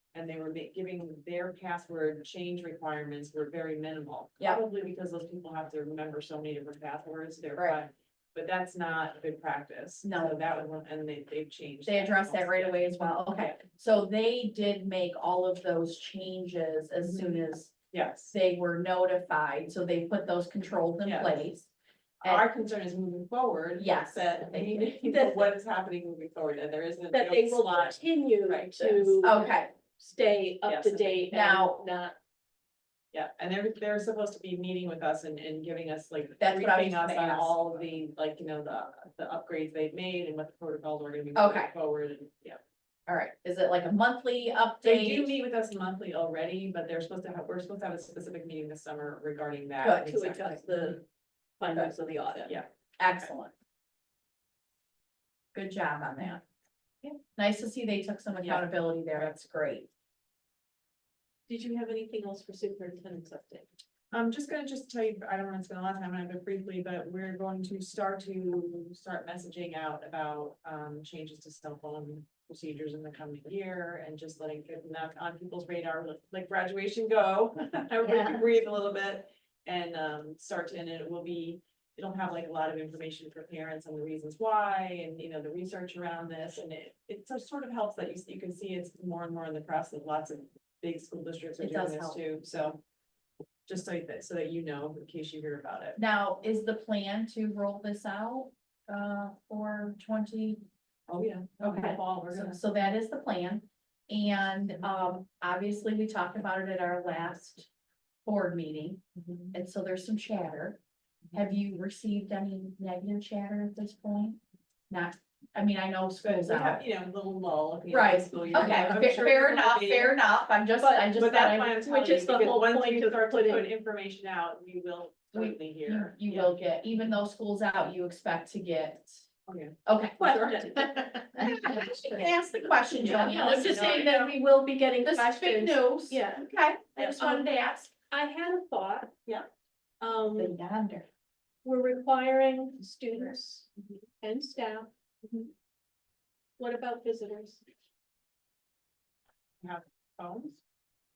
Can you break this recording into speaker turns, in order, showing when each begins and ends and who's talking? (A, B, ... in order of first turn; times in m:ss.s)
0:00.1-0:13.6 A
0:10.0-0:10.4 B
0:11.9-0:17.8 B
0:17.0-0:18.4 A
0:18.3-0:21.7 B
0:21.0-0:21.6 A
0:22.2-0:29.3 A
0:23.8-0:25.0 B
0:25.0-0:25.4 C
0:27.1-0:32.2 C
0:29.2-0:29.7 B
0:30.6-0:31.3 A
0:31.3-0:31.8 B
0:33.1-0:42.6 A
0:36.4-0:37.6 B
0:41.3-0:41.7 B
0:43.1-0:45.3 B
0:44.8-0:50.9 A
0:49.8-0:50.2 B
0:50.0-0:51.0 C
0:51.6-0:52.6 C
0:52.4-0:53.3 A
0:53.0-0:53.5 B
0:55.5-0:56.4 B
0:57.4-0:59.9 B
0:58.4-0:59.3 A
1:01.5-1:03.7 C
1:04.1-1:32.8 A
1:18.1-1:18.4 B
1:31.6-1:32.2 B
1:33.7-1:36.0 A
1:36.0-1:40.6 B
1:41.1-1:42.6 A
1:41.6-1:47.7 B
1:48.2-1:50.8 B
1:49.2-1:49.5 A
1:51.3-1:56.8 B
1:56.2-2:00.2 A
1:57.9-2:01.8 B
2:00.8-2:01.2 C
2:01.1-2:06.6 A
2:01.8-2:03.7 C
2:05.4-2:09.2 B
2:09.5-2:11.2 A
2:09.9-2:14.1 B
2:10.2-2:12.3 C
2:13.0-2:14.3 A
2:13.0-2:16.5 C
2:15.0-2:17.9 B
2:17.0-2:17.5 C
2:18.1-2:19.1 C
2:20.0-2:20.6 C
2:20.4-2:21.1 B
2:21.6-2:25.5 C
2:26.6-2:27.6 C
2:29.6-2:30.6 A